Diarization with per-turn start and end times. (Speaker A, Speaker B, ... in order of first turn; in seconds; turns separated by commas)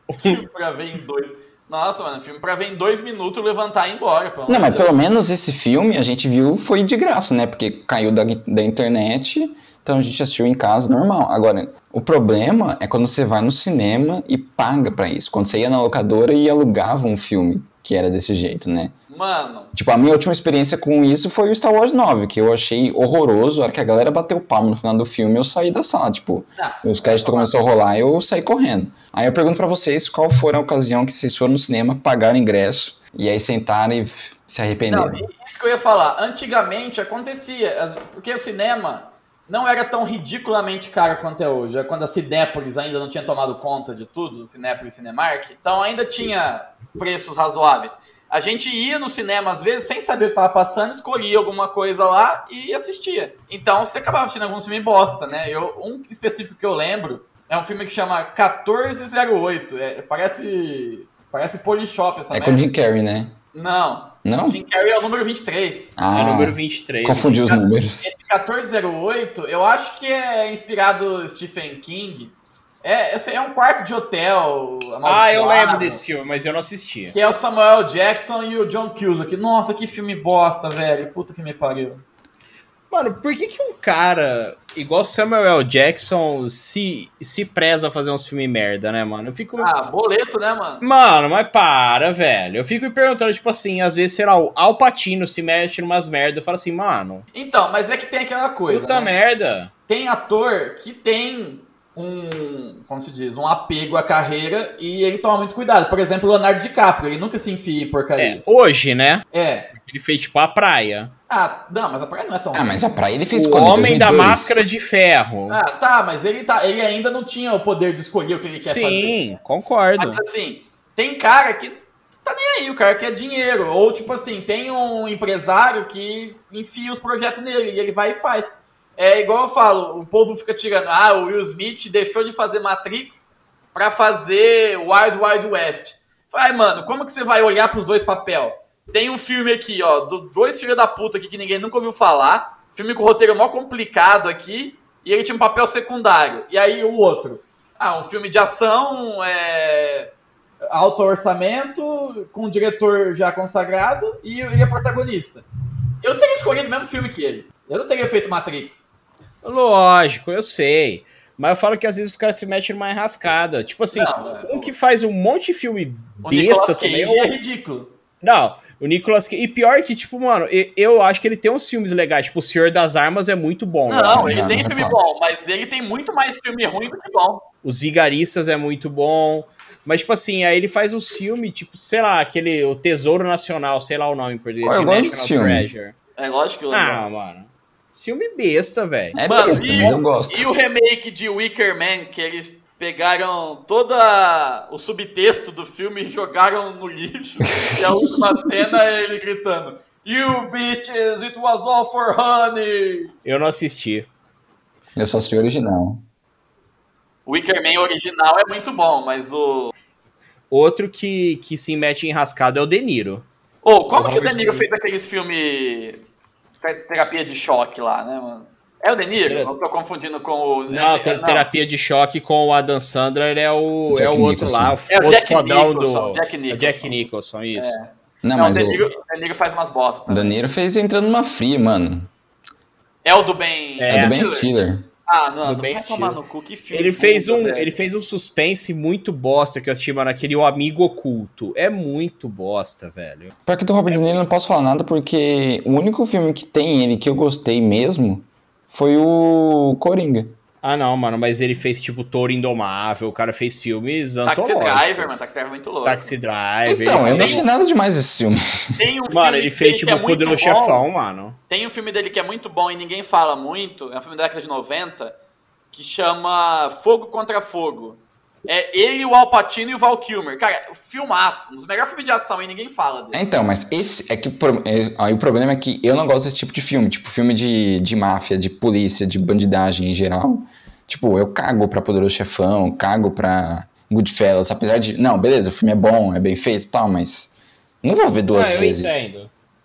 Speaker A: 0.2-4.9, Speaker B: 4.5-18.9, Speaker A: 19.1-19.7, Speaker B: 19.7-35.2, Speaker A: 26.6-27.5, Speaker A: 34.9-62.6, Speaker B: 62.3-63.4, Speaker A: 63.5-66.0, Speaker B: 64.2-64.6, Speaker B: 66.0-68.1, Speaker C: 66.1-67.5, Speaker A: 67.5-76.0, Speaker C: 75.0-77.2, Speaker A: 77.1-82.0, Speaker C: 82.9-89.7, Speaker A: 89.6-90.8, Speaker C: 90.8-97.2, Speaker A: 97.3-99.1, Speaker C: 98.7-99.7, Speaker A: 99.9-108.4, Speaker C: 108.2-111.1, Speaker A: 109.3-109.7, Speaker A: 111.3-112.9, Speaker B: 112.5-114.6, Speaker C: 113.3-115.6, Speaker A: 115.5-119.3, Speaker C: 118.6-120.2, Speaker A: 120.0-150.1, Speaker A: 150.7-155.4, Speaker A: 156.0-158.9, Speaker C: 159.4-167.3, Speaker A: 163.9-164.7, Speaker A: 166.2-167.9, Speaker C: 168.2-174.4, Speaker A: 173.9-177.4, Speaker B: 174.1-175.0, Speaker C: 177.6-185.9, Speaker B: 184.6-185.7, Speaker A: 186.2-187.0, Speaker C: 186.7-189.2, Speaker B: 189.1-190.5, Speaker A: 189.3-203.1, Speaker B: 197.4-198.5, Speaker C: 203.2-204.1, Speaker B: 204.9-206.0, Speaker A: 207.2-209.7, Speaker C: 210.5-213.2, Speaker A: 213.6-216.0, Speaker C: 213.9-214.7, Speaker A: 216.6-221.5, Speaker C: 219.3-219.5, Speaker C: 220.7-227.8, Speaker B: 223.9-224.8, Speaker A: 224.9-226.9, Speaker A: 227.6-230.4, Speaker B: 228.2-228.8, Speaker B: 230.1-232.1, Speaker A: 233.0-237.7, Speaker C: 233.8-234.2, Speaker B: 233.9-234.9, Speaker C: 235.4-236.2, Speaker C: 236.7-243.3, Speaker B: 243.4-250.3, Speaker C: 250.6-255.2, Speaker A: 254.2-256.1, Speaker C: 255.8-257.5, Speaker B: 256.7-258.4, Speaker A: 256.9-257.4, Speaker A: 258.8-260.9, Speaker C: 259.1-261.4, Speaker A: 261.5-265.1, Speaker A: 265.7-273.2, Speaker B: 273.1-287.3, Speaker B: 287.8-289.1, Speaker C: 288.3-289.3